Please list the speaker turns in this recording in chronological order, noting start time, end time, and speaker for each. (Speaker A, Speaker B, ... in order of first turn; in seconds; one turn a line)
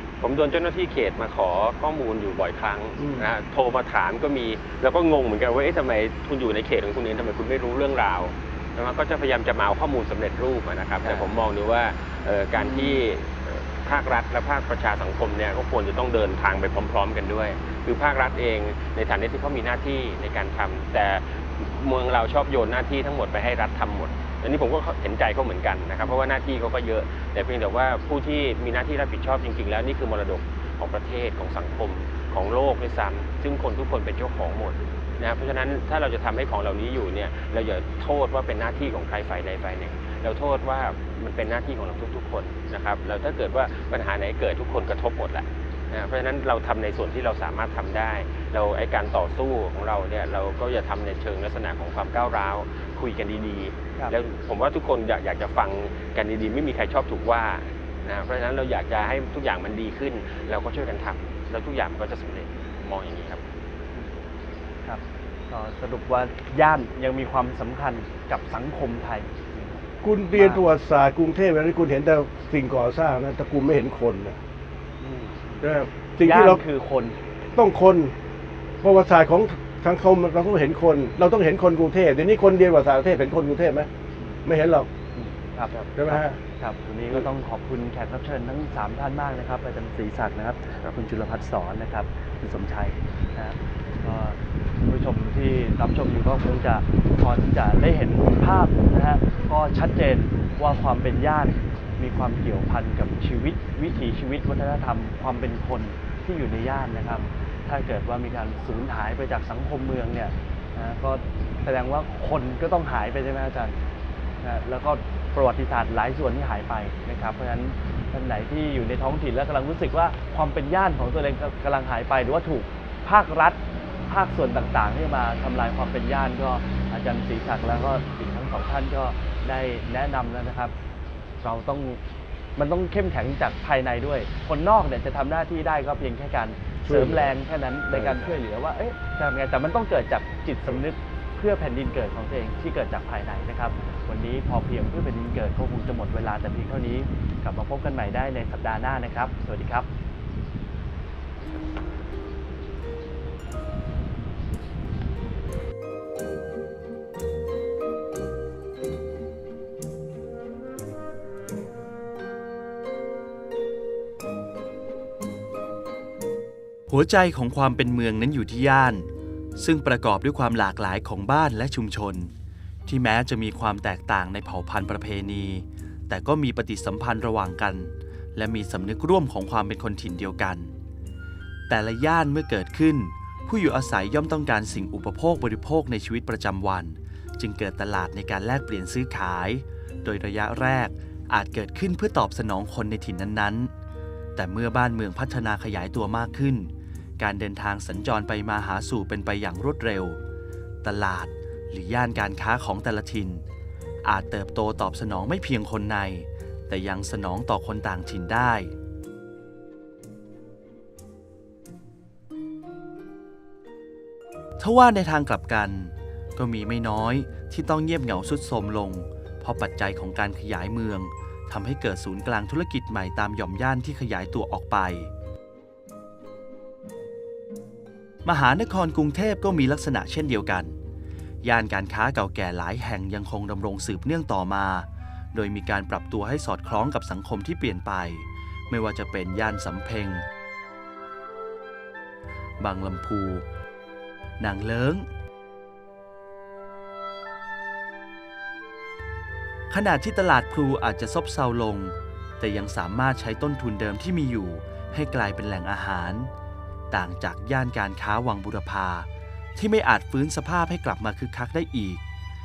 Speaker A: 0.2-63.4
Speaker B: 3.0-3.3
Speaker C: 64.8-69.8
Speaker B: 70.0-74.4
Speaker C: 70.3-70.6
Speaker C: 75.0-75.6
Speaker B: 75.6-76.6
Speaker C: 76.2-77.2
Speaker B: 77.5-78.1
Speaker B: 78.8-83.9
Speaker B: 84.4-84.9
Speaker C: 85.2-113.8
Speaker B: 86.0-86.4
Speaker C: 114.4-130.7
Speaker C: 131.4-132.0
Speaker C: 132.6-149.9
Speaker B: 136.8-137.3
Speaker B: 137.9-138.4
Speaker D: 166.9-172.3
Speaker D: 172.9-180.7
Speaker D: 181.7-193.7
Speaker D: 194.3-200.2
Speaker D: 200.8-203.4
Speaker D: 204.0-208.7
Speaker D: 214.6-225.1
Speaker D: 228.2-230.8
Speaker D: 231.4-240.2
Speaker D: 242.6-243.5
Speaker D: 244.4-245.1
Speaker D: 249.7-256.3
Speaker D: 256.9-262.0